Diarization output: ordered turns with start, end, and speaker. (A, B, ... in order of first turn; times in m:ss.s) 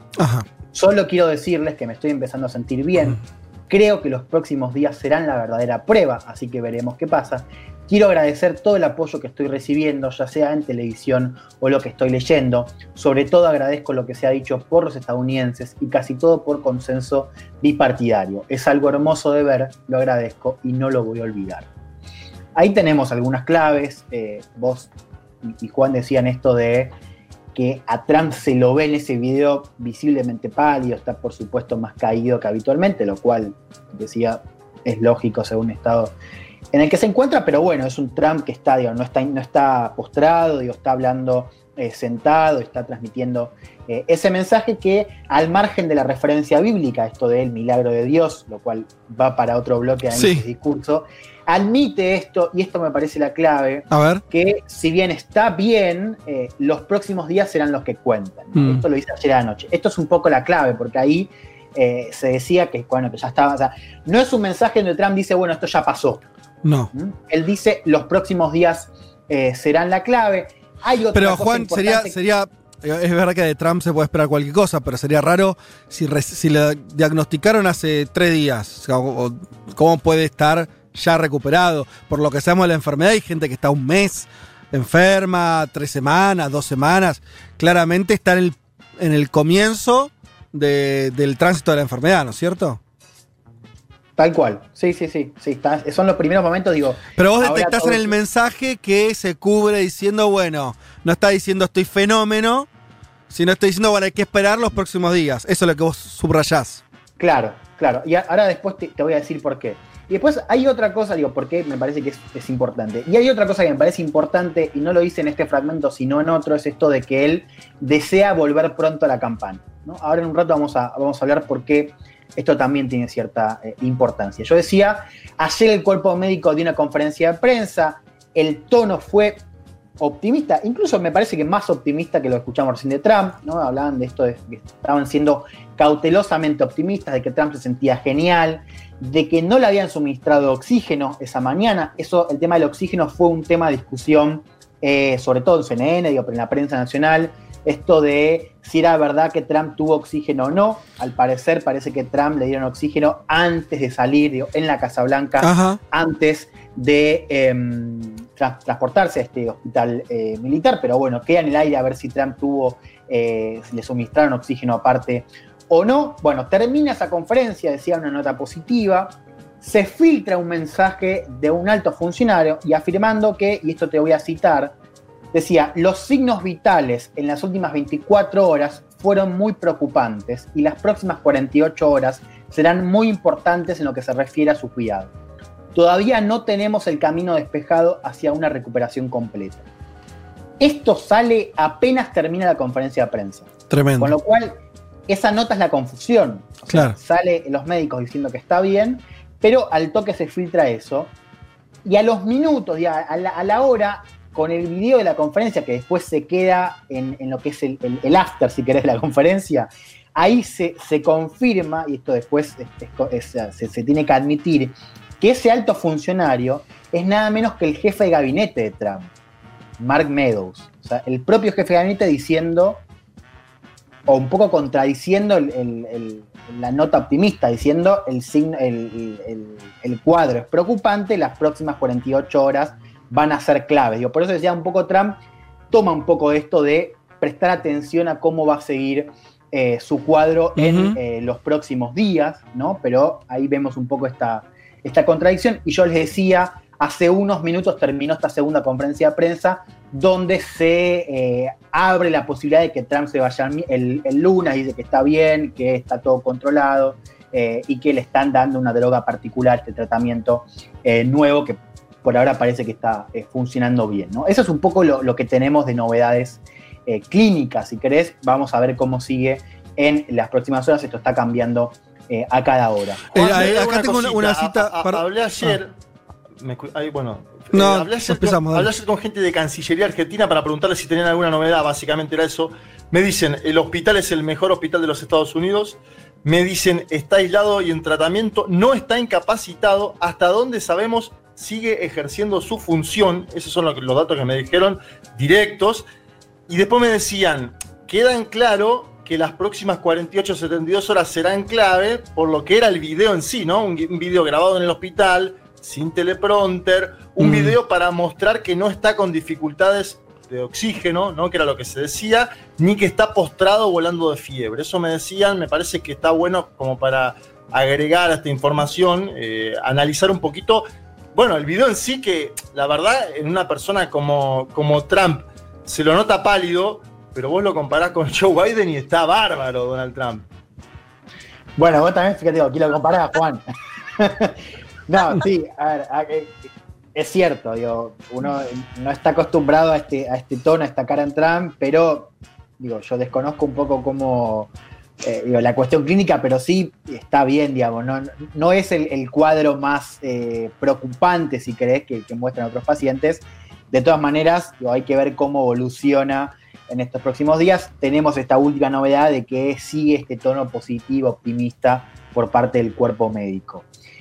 0:00.2-0:00.5 A
0:00.7-0:21.7 B
0:22.5-0:24.9 B
0:25.4-0:26.9 B
0:27.5-0:36.1 B
0:36.7-1:06.2 B
0:50.1-0:50.4 A
0:53.9-0:54.2 A
0:58.5-0:58.8 A
1:06.6-1:06.9 A
1:06.9-1:12.2 B
1:11.1-1:32.8 A
1:34.2-1:38.2 B
1:37.1-1:42.7 A
1:43.3-1:46.8 A
1:47.2-2:09.4 B
2:10.0-2:54.7 B
2:35.4-2:35.8 A
2:55.3-3:05.1 B
3:05.7-3:09.6 B
3:10.6-3:21.1 B
3:13.7-3:14.1 A
3:16.7-3:17.0 A
3:21.8-3:39.1 B
3:39.8-3:42.8 B
3:44.1-3:55.2 B
3:55.7-4:33.0 B
4:00.6-4:01.0 A
4:33.1-4:35.6 A
4:33.1-4:35.7 C
4:36.4-4:55.9 C
4:37.5-4:38.7 A
4:56.5-5:30.2 C
5:07.2-5:07.6 A
5:31.6-5:33.4 B
5:34.0-5:34.4 B
5:34.9-5:36.3 B
5:36.9-6:03.6 B